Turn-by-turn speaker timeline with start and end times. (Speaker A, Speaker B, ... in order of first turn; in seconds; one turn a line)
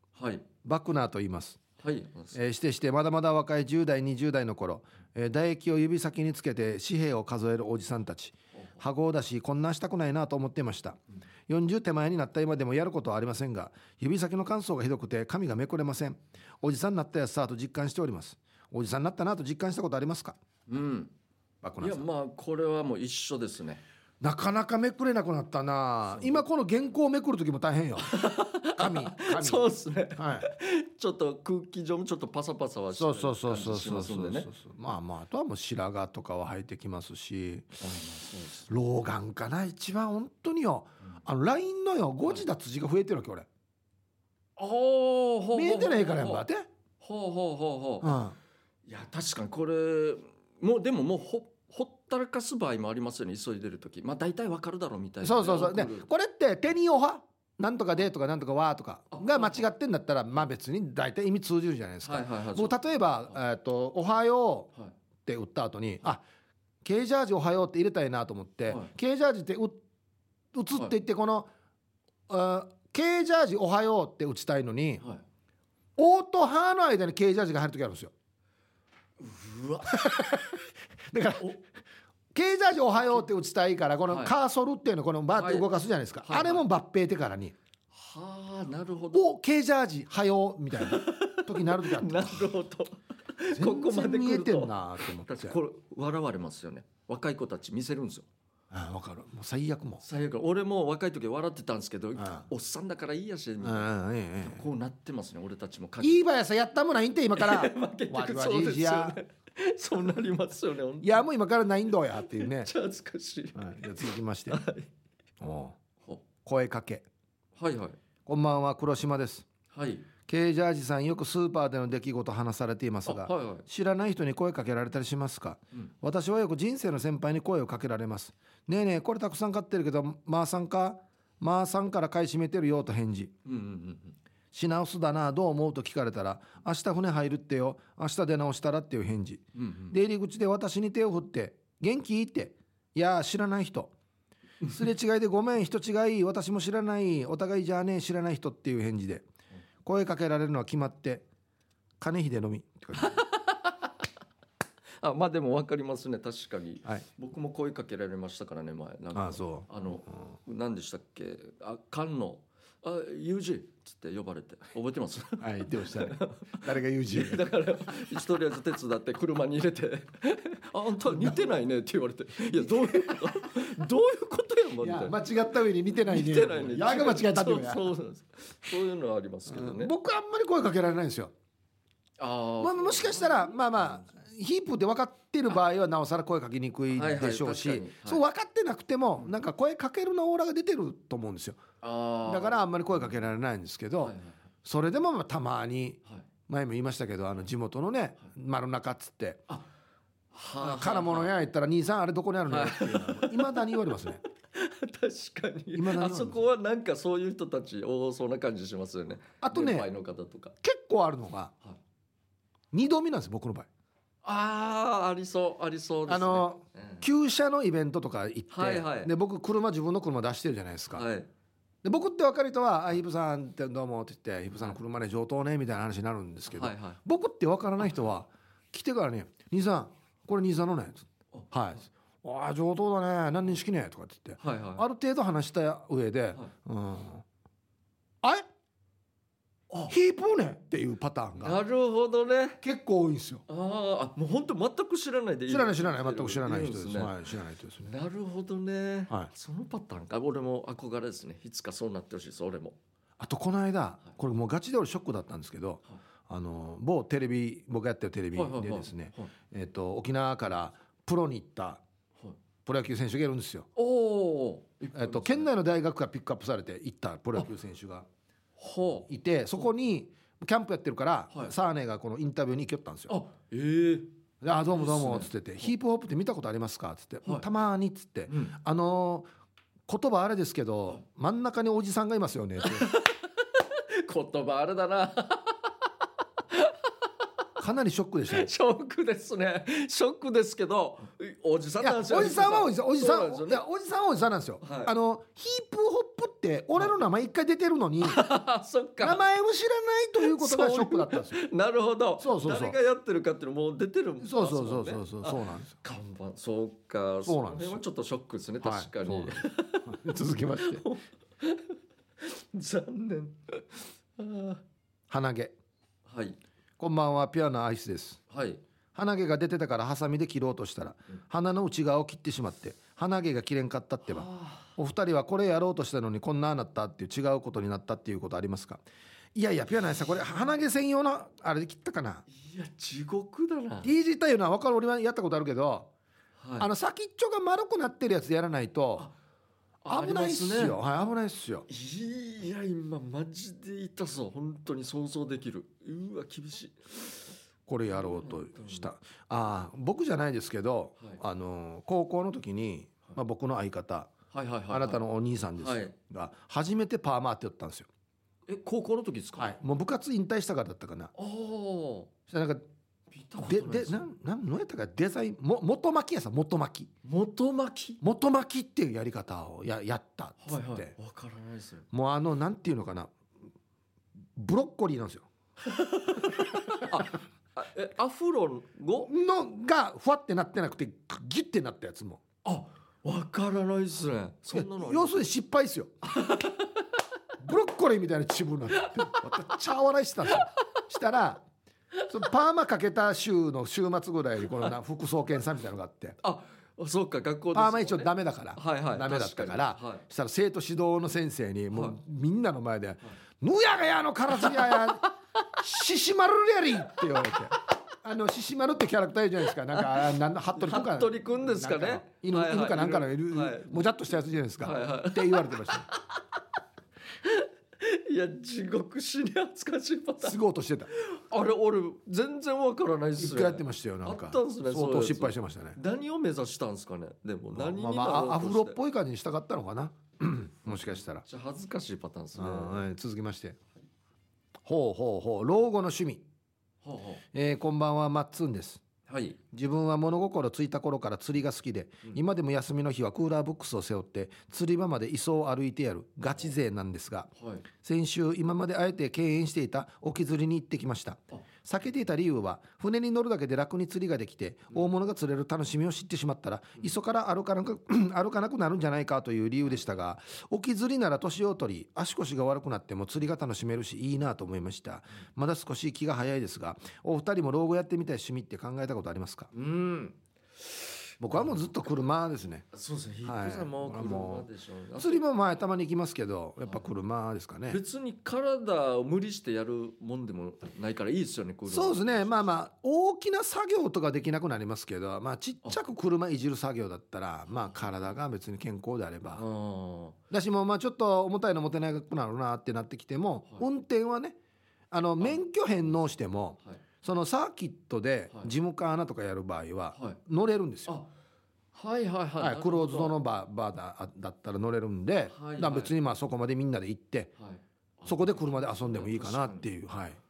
Speaker A: 0.2-0.5
Speaker B: 0.6-1.6
Speaker A: 1.8-2.4
Speaker B: 2.3-20.4
Speaker A: 20.7-21.1
Speaker B: 21.6-22.1
Speaker A: 21.8-23.8
Speaker B: 24.2-28.1
Speaker A: 28.0-34.5
Speaker B: 28.8-30.5
Speaker B: 33.0-37.8
Speaker A: 37.8-38.7
Speaker B: 38.7-43.5
Speaker A: 44.6-46.5
Speaker B: 45.5-46.7
Speaker A: 47.0-48.1
Speaker B: 48.0-48.4
Speaker A: 48.9-56.1
Speaker B: 55.2-64.7
Speaker A: 59.1-59.7
Speaker A: 62.0-62.8
Speaker B: 65.3-66.2
Speaker B: 66.8-69.8
Speaker B: 70.5-71.5
Speaker B: 72.3-75.0
Speaker B: 76.0-78.1
Speaker A: 79.2-80.1
Speaker B: 79.9-80.6
Speaker B: 81.1-81.5
Speaker B: 82.3-87.5
Speaker A: 84.1-84.3
Speaker A: 85.3-85.7
Speaker A: 86.2-86.6
Speaker A: 87.9-89.3
Speaker B: 89.1-92.5
Speaker A: 90.8-98.3
Speaker B: 93.5-95.6
Speaker B: 98.7-100.0
Speaker A: 100.0-103.9
Speaker B: 102.2-102.4
Speaker B: 103.6-104.6
Speaker A: 104.5-106.2
Speaker B: 106.0-109.2
Speaker A: 107.4-111.3
Speaker B: 111.0-112.7
Speaker A: 112.3-114.9
Speaker B: 113.5-114.6
Speaker B: 115.4-115.8
Speaker B: 116.4-117.0
Speaker A: 117.6-118.0
Speaker B: 118.3-119.5
Speaker A: 119.7-120.1
Speaker B: 120.3-133.3
Speaker A: 123.1-123.7
Speaker A: 133.5-134.2
Speaker B: 134.5-143.9
Speaker A: 139.6-139.9
Speaker B: 144.7-149.2
Speaker B: 149.8-151.2
Speaker B: 152.0-153.2
Speaker A: 152.9-153.9
Speaker A: 155.0-175.2
Speaker B: 159.1-159.7
Speaker B: 165.4-167.5
Speaker B: 171.1-171.4
Speaker B: 172.6-173.3
Speaker B: 174.8-177.9
Speaker A: 176.1-179.9
Speaker B: 179.5-181.3
Speaker A: 182.2-184.1
Speaker B: 182.6-191.6
Speaker A: 186.9-188.2
Speaker A: 191.8-193.2
Speaker B: 192.2-199.4
Speaker A: 194.0-194.4
Speaker A: 200.3-201.3
Speaker B: 200.6-204.2
Speaker A: 202.5-203.8
Speaker A: 204.5-210.6
Speaker B: 205.8-206.5
Speaker B: 209.4-209.9
Speaker B: 210.6-211.5
Speaker B: 212.7-213.7
Speaker A: 214.2-217.1
Speaker B: 216.1-221.1
Speaker A: 218.5-219.1
Speaker A: 220.9-221.3
Speaker B: 221.8-237.2
Speaker A: 226.5-227.0
Speaker A: 234.4-234.9
Speaker B: 239.9-241.6
Speaker A: 241.4-242.6
Speaker B: 242.6-243.4
Speaker A: 243.5-247.2
Speaker B: 245.5-247.9
Speaker A: 247.8-252.8
Speaker B: 253.2-261.8
Speaker A: 258.3-259.3
Speaker B: 262.7-263.7
Speaker A: 263.8-265.5
Speaker B: 264.9-268.1
Speaker A: 268.6-269.1
Speaker B: 269.1-273.1
Speaker A: 273.1-274.1
Speaker B: 274.4-279.3
Speaker A: 274.7-275.7
Speaker A: 278.3-278.6
Speaker B: 279.9-282.9
Speaker A: 282.6-285.7
Speaker A: 286.5-286.8
Speaker B: 287.6-288.5
Speaker A: 288.3-293.6
Speaker B: 291.8-298.2
Speaker A: 294.6-294.9
Speaker A: 298.0-299.2
Speaker B: 299.0-301.4
Speaker A: 300.2-310.0
Speaker B: 302.2-302.8
Speaker B: 304.2-305.7
Speaker B: 307.2-307.8
Speaker B: 308.6-310.8
Speaker A: 310.6-314.6
Speaker B: 315.1-315.6
Speaker A: 316.1-316.4
Speaker B: 316.8-318.2
Speaker A: 318.3-318.6
Speaker B: 318.9-328.8
Speaker A: 324.1-324.7
Speaker B: 329.4-332.2
Speaker A: 332.3-333.9
Speaker B: 333.8-335.9
Speaker A: 336.4-336.7
Speaker B: 336.6-339.1
Speaker A: 339.8-340.8
Speaker B: 339.9-341.7
Speaker A: 341.7-347.3
Speaker B: 347.7-354.1
Speaker A: 347.9-348.9
Speaker A: 354.3-355.0
Speaker B: 354.7-357.9
Speaker A: 355.6-355.9
Speaker A: 358.5-359.6
Speaker B: 359.4-361.1
Speaker A: 361.1-362.1
Speaker B: 362.3-362.6
Speaker A: 363.1-364.1
Speaker B: 363.4-366.9
Speaker A: 367.0-368.0
Speaker B: 368.0-370.9
Speaker A: 370.4-371.9
Speaker B: 371.9-373.1
Speaker B: 374.4-375.3
Speaker A: 375.6-379.1
Speaker B: 379.1-382.2
Speaker A: 382.4-385.2
Speaker B: 384.5-385.9
Speaker A: 386.0-386.8
Speaker B: 387.4-391.4
Speaker B: 392.1-396.2
Speaker A: 396.2-400.0
Speaker B: 397.5-405.1
Speaker A: 401.7-402.0
Speaker A: 404.4-405.0
Speaker B: 405.6-415.9
Speaker A: 409.7-413.9
Speaker A: 414.6-416.2
Speaker A: 417.2-420.4
Speaker B: 420.2-420.9
Speaker A: 420.9-428.8
Speaker B: 423.2-425.8
Speaker B: 427.5-431.2
Speaker A: 431.2-432.9
Speaker B: 432.4-433.6
Speaker B: 434.6-436.2
Speaker A: 436.8-437.2
Speaker B: 437.3-438.8
Speaker A: 439.1-439.4
Speaker B: 439.5-447.3
Speaker A: 447.4-447.6
Speaker B: 447.8-469.5
Speaker A: 469.5-470.2
Speaker B: 471.2-472.7
Speaker A: 472.7-475.2
Speaker B: 473.2-474.5
Speaker B: 475.0-477.8
Speaker A: 477.7-482.5
Speaker B: 481.7-489.4
Speaker A: 487.5-488.1
Speaker A: 489.4-490.2
Speaker B: 490.3-494.4
Speaker B: 494.9-500.9
Speaker A: 501.7-503.2
Speaker B: 502.4-507.3
Speaker A: 505.3-505.9
Speaker A: 507.4-509.7
Speaker B: 508.1-510.2